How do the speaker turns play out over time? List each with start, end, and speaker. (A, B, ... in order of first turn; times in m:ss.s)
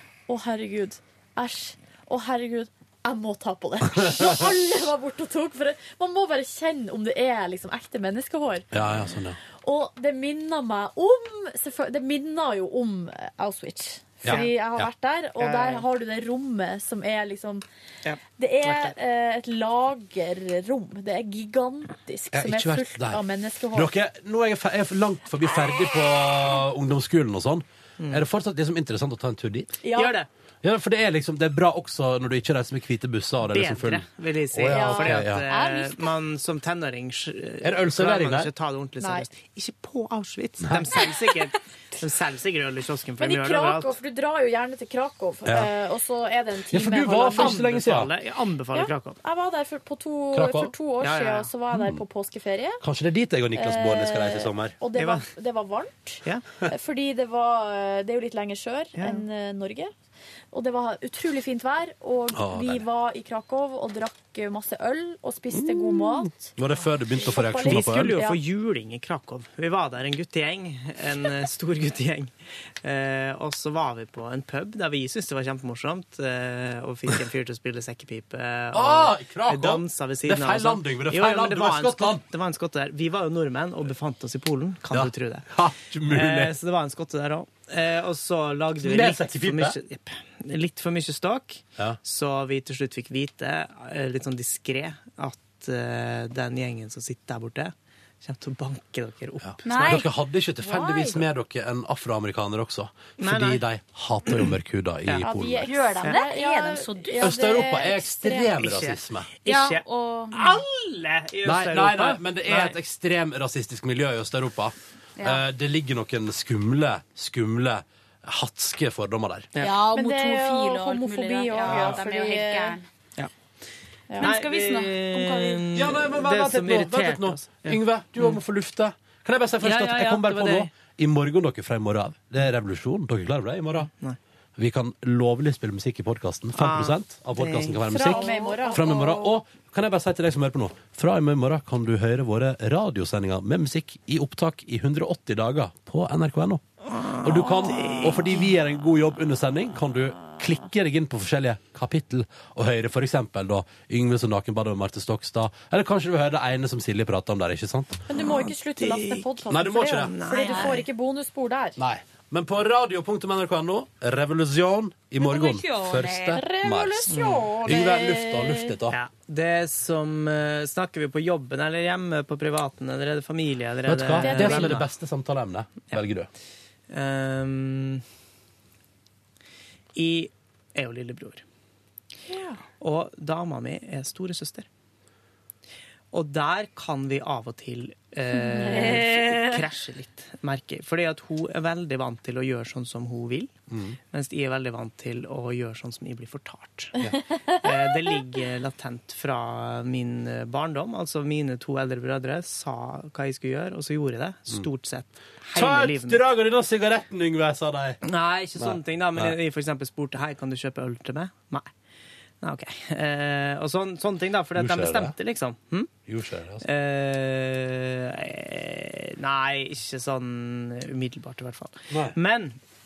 0:00.3-0:08.7 A
0:04.0-0:04.4 B
0:08.7-0:09.4 B
0:09.6-0:17.6 A
0:14.2-0:14.9 B
0:14.2-0:14.5 C
0:15.4-0:15.8 C
0:18.0-0:18.9 C
0:18.4-0:23.9 A
0:22.3-0:23.2 B
0:23.7-0:29.7 B
0:28.0-0:28.2 C
0:29.8-0:30.1 A
0:29.9-0:30.3 C
0:30.6-0:35.4 B
0:33.5-0:43.9 C
0:34.7-0:36.0 A
0:37.6-0:38.5 B
0:39.0-0:39.3 A
0:40.6-0:41.0 B
0:43.2-0:47.6 A
0:46.7-0:48.1 B
0:47.3-0:49.2 C
0:48.7-0:52.8 A
0:50.3-0:50.7 B
0:51.0-0:51.5 C
0:51.7-0:52.0 B
0:52.8-0:54.7 B
0:53.5-0:59.9 A
0:55.0-0:55.3 C
0:59.0-0:59.2 C
1:00.5-1:06.5 A
1:02.3-1:02.8 B
1:05.6-1:08.2 B
1:07.2-1:08.4 A
1:07.6-1:12.3 C
1:12.8-1:25.5 C
1:18.7-1:22.2 B
1:24.9-1:26.5 B
1:26.1-1:40.0 C
1:28.8-1:29.8 B
1:39.4-1:45.7 B
1:39.6-1:40.1 D
1:40.7-1:41.1 D
1:43.2-1:43.6 C
1:45.2-1:48.5 A
1:45.7-1:47.3 D
1:47.2-1:49.3 B
1:48.6-1:52.8 C
1:49.4-1:50.6 D
1:51.4-1:59.5 B
1:55.2-1:55.4 D
1:59.6-2:02.9 D
1:59.9-2:02.8 A
2:01.7-2:02.0 B
2:04.1-2:04.3 A
2:04.2-2:05.6 D
2:04.2-2:08.4 C
2:05.7-2:13.9 B
2:09.6-2:10.7 C
2:14.6-2:26.6 B
2:16.6-2:18.4 C
2:17.9-2:19.3 A
2:27.0-2:28.4 C
2:27.2-2:38.0 B
2:38.1-2:41.8 A
2:38.2-2:39.3 C
2:39.5-2:40.1 B
2:39.9-2:40.8 C
2:40.4-2:40.8 D
2:41.8-2:49.0 B
2:45.2-2:46.4 D
2:46.3-2:48.7 A
2:47.1-2:47.6 C
2:48.9-2:54.8 C
2:53.8-2:56.3 B
2:54.2-2:54.8 A
2:56.9-2:58.0 C
2:59.9-3:01.4 C
3:02.3-3:02.6 A
3:02.8-3:04.7 C
3:06.1-3:13.5 C
3:08.6-3:09.0 A
3:08.6-3:09.6 D
3:13.7-3:14.0 B
3:14.1-3:17.0 C
3:17.3-3:17.6 A
3:17.6-3:26.2 C
3:25.5-3:28.0 B
3:28.0-3:31.7 C
3:28.6-3:29.3 B
3:32.4-3:35.9 C
3:34.5-3:35.1 B
3:36.1-3:36.6 B
3:36.6-3:42.6 C
3:41.9-3:42.2 B